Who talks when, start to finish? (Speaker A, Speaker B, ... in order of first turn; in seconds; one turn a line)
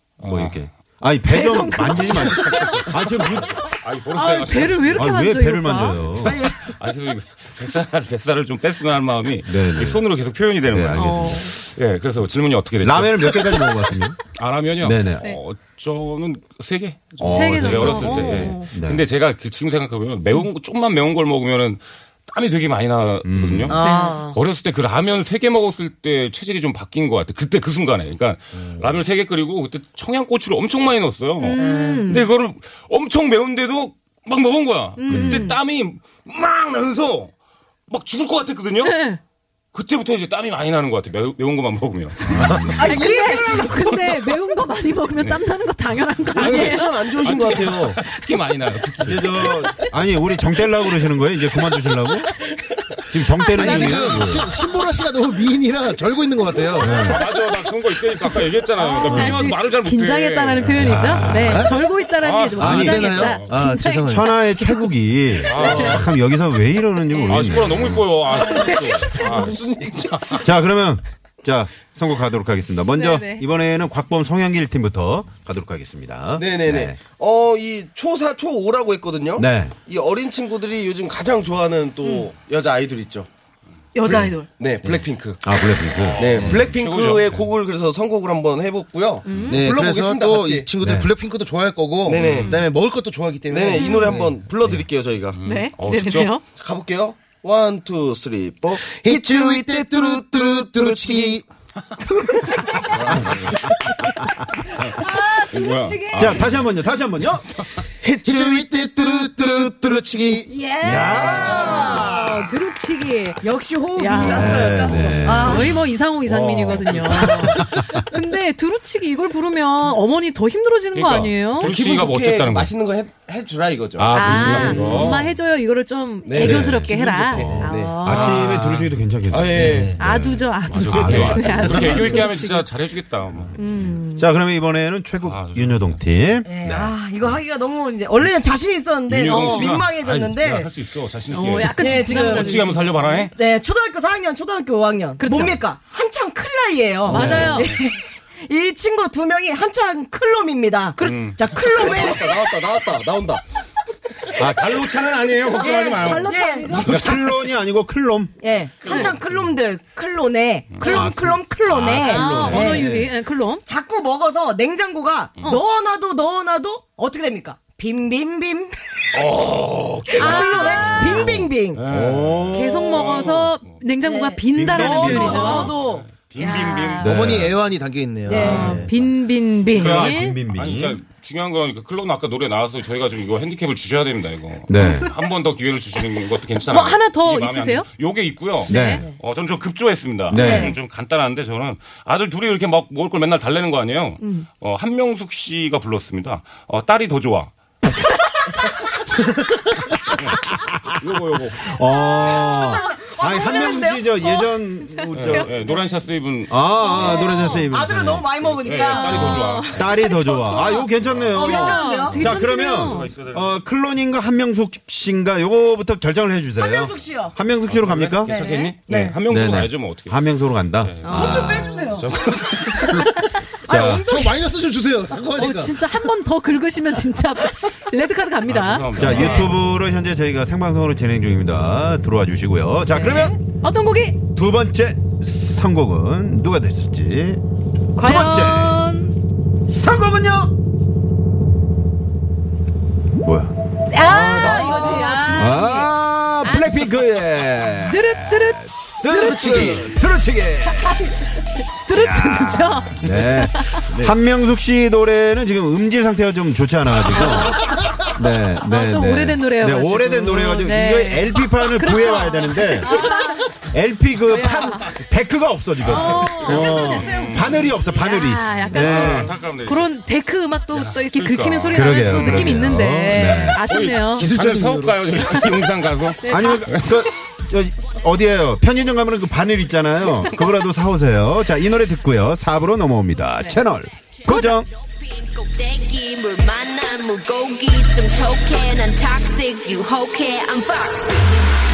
Speaker A: 0.2-0.7
Speaker B: 0.2-3.5
Speaker C: 1.3-2.7
Speaker A: 2.1-5.2
Speaker C: 4.1-6.1
Speaker B: 4.9-6.4
Speaker A: 6.2-13.6
Speaker D: 6.2-6.5
Speaker B: 9.4-10.1
Speaker B: 10.6-11.4
Speaker C: 10.9-11.6
Speaker B: 12.8-14.2
Speaker A: 14.3-37.3
Speaker B: 14.8-15.3
Speaker B: 17.2-19.0
Speaker C: 17.2-18.7
Speaker B: 23.2-23.8
Speaker D: 23.7-24.4
Speaker C: 23.8-24.2
Speaker C: 31.4-32.2
Speaker D: 31.6-32.0
Speaker C: 35.0-35.6
Speaker B: 35.1-35.4
Speaker A: 37.9-39.0
Speaker C: 38.8-39.2
Speaker A: 39.7-42.8
Speaker B: 42.2-42.9
Speaker E: 42.4-42.7
Speaker D: 42.7-44.0
Speaker C: 42.8-46.9
Speaker A: 43.7-44.1
Speaker E: 46.3-48.0
Speaker A: 46.4-49.7
Speaker B: 49.0-52.3
Speaker B: 53.1-54.5
Speaker C: 53.5-54.4
Speaker F: 53.5-57.0
Speaker B: 56.8-57.3
Speaker A: 56.8-61.3
Speaker C: 58.8-64.8
Speaker B: 59.1-59.4
Speaker B: 60.7-61.8
Speaker F: 61.3-61.7
Speaker A: 62.2-63.5
Speaker F: 62.6-64.3
Speaker B: 64.0-68.2
Speaker A: 65.4-66.1
Speaker C: 67.1-67.6
Speaker A: 67.3-70.3
Speaker C: 68.3-69.5
Speaker E: 68.5-70.4
Speaker B: 70.4-77.0
Speaker C: 72.9-73.5
Speaker E: 76.3-83.3
Speaker B: 79.4-79.7
Speaker C: 82.0-82.3
Speaker C: 83.9-84.5
Speaker B: 84.1-84.3
Speaker E: 84.4-85.4
Speaker B: 85.4-86.7
Speaker A: 86.0-87.5
Speaker E: 86.2-90.7
Speaker C: 89.2-89.6
Speaker F: 89.5-94.3
Speaker B: 90.8-91.1
Speaker E: 92.0-92.6
Speaker A: 92.2-92.5
Speaker E: 93.5-95.4
Speaker C: 93.7-94.2
Speaker A: 95.4-96.4
Speaker C: 95.4-96.4
Speaker E: 96.5-101.4
Speaker F: 98.8-101.4
Speaker C: 102.4-102.8
Speaker A: 102.9-103.6
Speaker E: 103.0-103.4
Speaker A: 104.7-106.7
Speaker C: 105.0-106.6
Speaker B: 106.1-107.5
Speaker E: 108.0-109.5
Speaker F: 108.2-110.5
Speaker B: 108.3-108.6
Speaker C: 110.5-113.4
Speaker B: 110.8-112.1
Speaker E: 111.0-112.4
Speaker D: 111.6-112.2
Speaker D: 113.4-115.7
Speaker C: 113.9-114.6
Speaker E: 114.1-115.4
Speaker B: 114.3-115.7
Speaker C: 115.3-121.7
Speaker A: 116.2-117.4
Speaker B: 117.3-117.8
Speaker A: 120.9-122.7
Speaker E: 121.6-125.2
Speaker A: 124.0-125.2
Speaker C: 124.1-128.4
Speaker B: 124.6-125.1
Speaker E: 126.2-128.2
Speaker B: 126.3-132.2
Speaker A: 128.0-128.9
Speaker E: 129.3-130.0
Speaker F: 129.6-129.9
Speaker C: 130.0-132.7
Speaker A: 130.6-133.9
Speaker C: 133.6-134.3
Speaker B: 134.2-136.9
Speaker A: 135.2-136.0
Speaker D: 136.4-140.7
Speaker A: 139.1-143.3
Speaker C: 139.3-139.8
Speaker C: 141.3-143.3
Speaker D: 141.8-152.3
Speaker C: 145.2-145.6
Speaker C: 147.0-147.7
Speaker B: 147.1-147.6
Speaker A: 147.5-147.8
Speaker C: 150.9-151.3
Speaker A: 151.0-151.7
Speaker E: 151.7-153.4
Speaker A: 154.3-157.0
Speaker B: 154.3-154.9
Speaker D: 155.5-157.4
Speaker B: 156.8-158.3
Speaker D: 158.4-162.9
Speaker A: 158.8-159.1
Speaker C: 158.8-159.1
Speaker A: 160.7-161.1
Speaker B: 160.8-163.1
Speaker C: 162.0-163.6
Speaker D: 163.6-169.4
Speaker A: 169.1-173.8
Speaker D: 170.1-171.8
Speaker C: 170.2-171.3
Speaker B: 171.9-173.1
Speaker C: 172.5-175.8
Speaker D: 174.0-176.1
Speaker B: 174.5-175.6
Speaker A: 175.0-177.2
Speaker C: 176.4-177.1
Speaker B: 177.0-177.6
Speaker F: 177.0-178.9
Speaker D: 178.2-178.9
Speaker C: 178.3-180.4
Speaker B: 179.7-181.0
Speaker A: 179.7-197.5
Speaker B: 184.7-185.1
Speaker C: 186.7-187.8
Speaker C: 188.7-189.0
Speaker B: 188.7-189.1
Speaker D: 188.7-189.2
Speaker B: 190.3-190.7
Speaker D: 190.3-190.7
Speaker C: 194.2-194.4
Speaker A: 200.2-201.7
Speaker B: 201.7-205.5
Speaker D: 201.9-204.2
Speaker C: 203.4-205.5
Speaker A: 205.1-207.3
Speaker B: 206.5-208.4
Speaker D: 206.8-209.4
Speaker C: 207.0-207.7
Speaker A: 208.4-209.9
Speaker C: 208.8-213.1
Speaker B: 209.7-218.3
Speaker A: 211.0-213.6
Speaker D: 211.3-212.2
Speaker D: 216.6-217.4
Speaker A: 217.7-223.0
Speaker D: 218.2-219.2
Speaker B: 219.3-221.8
Speaker C: 221.0-222.0
Speaker D: 221.1-222.1
Speaker C: 223.0-223.4
Speaker B: 223.7-224.1
Speaker F: 223.7-225.8
Speaker D: 223.7-224.3
Speaker C: 225.3-229.5
Speaker A: 228.4-229.6
Speaker B: 228.9-233.3
Speaker C: 232.9-234.2
Speaker B: 234.3-237.4
Speaker C: 238.0-239.1
Speaker B: 238.0-238.8
Speaker B: 239.7-240.5
Speaker B: 243.2-243.5
Speaker C: 243.9-245.8
Speaker D: 244.0-245.9
Speaker B: 245.3-251.1
Speaker C: 246.4-247.0
Speaker C: 247.8-249.8
Speaker F: 249.2-249.6
Speaker C: 251.8-253.8
Speaker B: 251.9-269.3
Speaker F: 253.9-254.2
Speaker C: 257.1-257.9
Speaker C: 258.6-263.5
Speaker C: 264.3-264.9
Speaker A: 265.8-269.9
Speaker C: 265.9-274.3
Speaker A: 270.7-272.6
Speaker B: 271.7-273.6
Speaker A: 273.7-276.9
Speaker F: 274.1-275.4
Speaker C: 276.2-276.9
Speaker B: 276.3-284.7
Speaker C: 284.2-284.6
Speaker G: 284.7-291.4